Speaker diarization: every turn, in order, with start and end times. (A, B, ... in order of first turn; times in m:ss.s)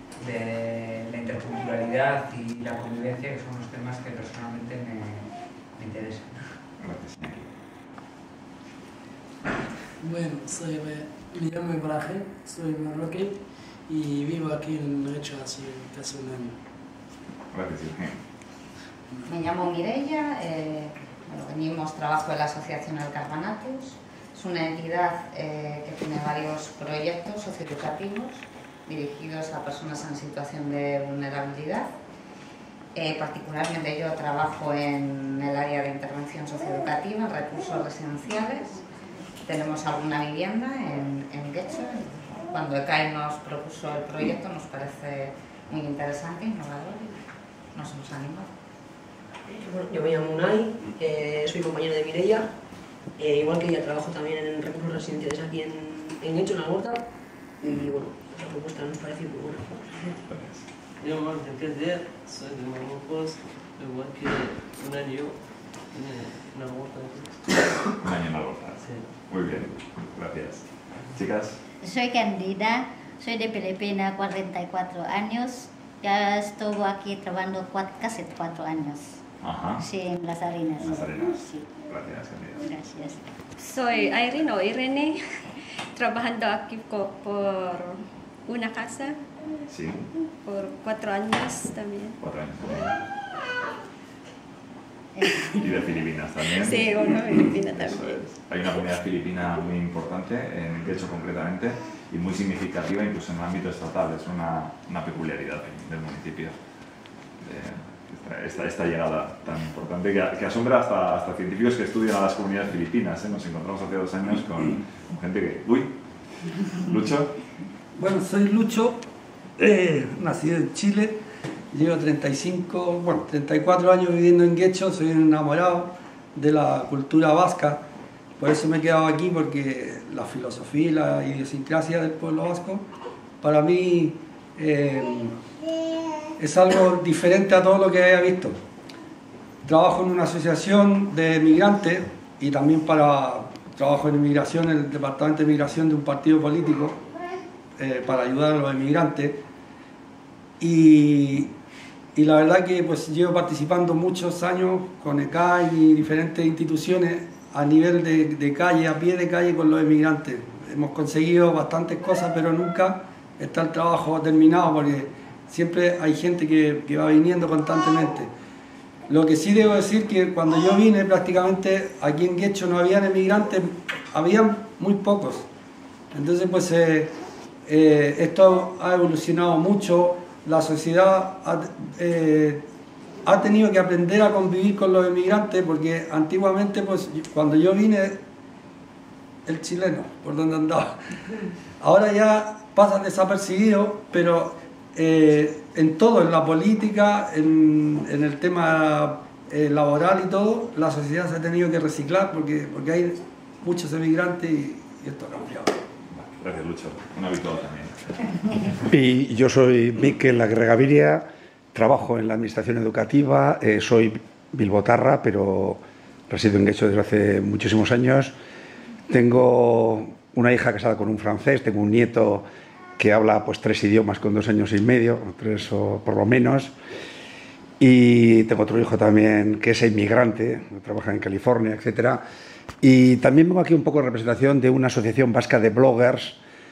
0:00.2-0:06.6 A
0:06.8-0:07.5 B
0:10.0-0:16.5 C
0:17.5-0:18.2 B
0:19.2-0:31.9 D
0:32.9-0:38.8 D
0:39.4-0:47.2 D
0:47.7-0:48.5 D
0:49.5-0:52.4 E
0:53.2-0:56.9 E
0:58.2-0:58.6 E
1:00.3-1:00.6 B
1:01.0-1:07.4 F
1:08.0-1:11.6 B
1:11.8-1:19.2 G
1:19.4-1:19.8 B
1:19.8-1:21.6 G
1:20.8-1:22.6 B
1:22.6-1:23.2 G
1:23.6-1:25.2 H
1:25.9-1:29.2 H
1:29.7-1:30.0 B
1:30.4-1:32.2 H
1:32.2-1:33.0 B
1:35.5-1:46.6 B
1:36.4-1:38.3 H
1:47.4-1:55.9 B
1:56.8-1:57.3 B
1:58.0-1:59.0 I
1:59.6-2:01.2 I
2:01.7-2:07.8 I
2:08.4-2:12.8 I
2:13.4-2:15.4 I
2:16.4-2:18.6 I
2:19.6-2:27.0 I
2:27.8-2:29.4 I
2:30.6-2:31.5 I
2:32.1-2:48.3 I
2:49.1-2:55.5 I
2:56.1-2:57.1 I
2:57.6-3:02.6 I
3:03.2-3:08.2 I
3:09.4-3:11.0 I
3:11.8-3:25.7 I
3:26.1-3:28.0 B
3:28.8-3:38.3 J
3:39.1-3:42.4 J
3:43.0-3:46.7 J
3:47.8-3:52.2 J
3:52.8-3:56.4 J